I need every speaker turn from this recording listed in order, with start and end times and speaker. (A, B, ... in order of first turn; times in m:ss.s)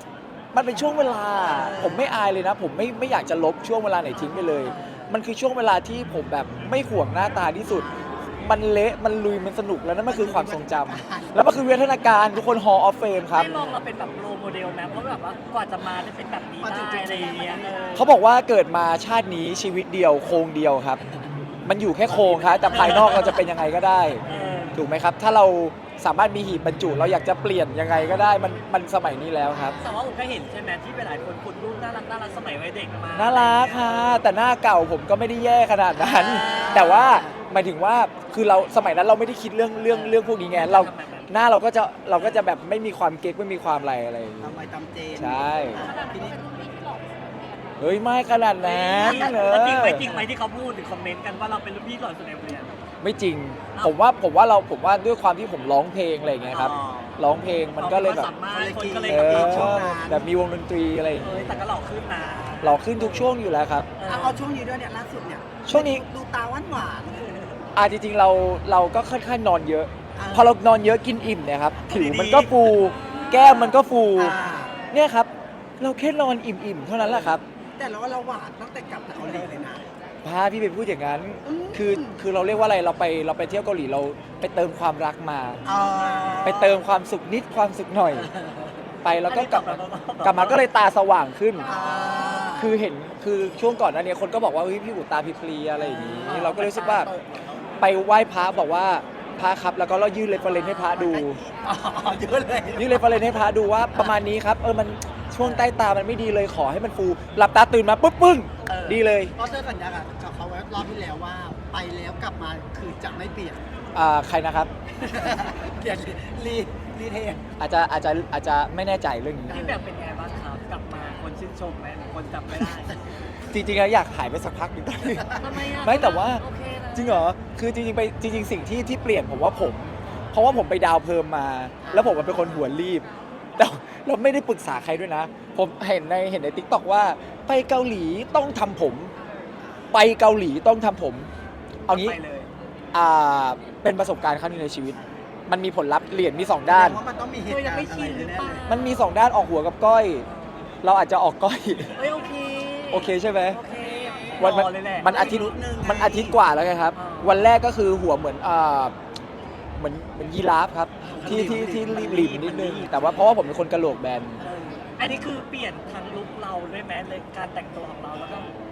0:00.5-0:07.9 A
0:01.4-0:02.1 B
0:04.1-0:05.2 B
0:07.7-0:08.5 C
0:08.4-0:13.7 A
0:10.1-0:11.4 C
0:13.3-0:18.2 B
0:16.6-0:17.7 C
0:18.0-0:21.0 A
0:21.6-0:24.2 A
0:22.1-0:23.4 B
0:24.3-0:24.8 B
0:24.3-0:24.6 C
0:24.8-0:29.8 A
0:29.5-0:30.0 C
0:29.8-0:34.2 B
0:33.1-0:44.6 A
0:36.0-0:37.1 B
0:36.2-0:37.3 C
0:39.9-0:41.3 B
0:44.4-0:46.4 C
0:45.2-0:45.8 A
0:45.8-0:47.8 D
0:47.8-0:50.1 A
0:48.6-0:52.8 B
0:53.0-0:58.3 A
0:56.5-0:59.8 B
0:58.5-1:00.3 C
0:59.1-1:01.6 A
1:01.2-1:03.3 B
1:02.6-1:03.9 A
1:04.0-1:04.4 B
1:04.1-1:07.6 C
1:05.7-1:06.0 A
1:07.8-1:14.4 A
1:10.2-1:10.6 C
1:11.9-1:13.2 B
1:13.3-1:14.8 C
1:14.9-1:17.4 A
1:17.1-1:19.9 C
1:20.2-1:25.6 A
1:21.4-1:22.2 C
1:25.6-1:26.7 B
1:25.6-1:26.8 C
1:26.4-1:28.3 A
1:28.2-1:30.6 B
1:29.0-1:31.8 A
1:31.6-1:32.5 B
1:31.6-1:32.7 C
1:32.5-1:37.1 A
1:35.8-1:37.7 B
1:37.8-1:41.4 A
1:40.5-1:41.0 B
1:40.9-1:43.3 C
1:42.8-1:49.3 A
1:45.4-1:45.6 B
1:48.8-1:53.6 C
1:53.9-1:54.7 A
1:55.0-1:57.4 C
1:57.6-1:59.6 A
1:59.5-2:03.0 B
1:59.5-1:59.8 C
2:03.5-2:13.1 A
2:05.3-2:07.3 B
2:11.8-2:12.4 B
2:13.6-2:19.1 A
2:19.9-2:21.3 A
2:21.9-2:22.2 A
2:21.9-2:22.5 B
2:22.9-2:27.0 A
2:26.6-2:28.6 C
2:27.5-2:29.1 B
2:28.7-2:30.2 A
2:30.2-2:30.8 B
2:30.8-2:32.0 A
2:32.0-2:35.1 B
2:32.9-2:33.6 A
2:34.4-2:38.9 A
2:35.0-2:36.4 C
2:37.0-2:37.5 B
2:39.8-2:44.4 A
2:41.1-2:43.3 B
2:41.1-2:41.7 C
2:44.4-2:48.5 B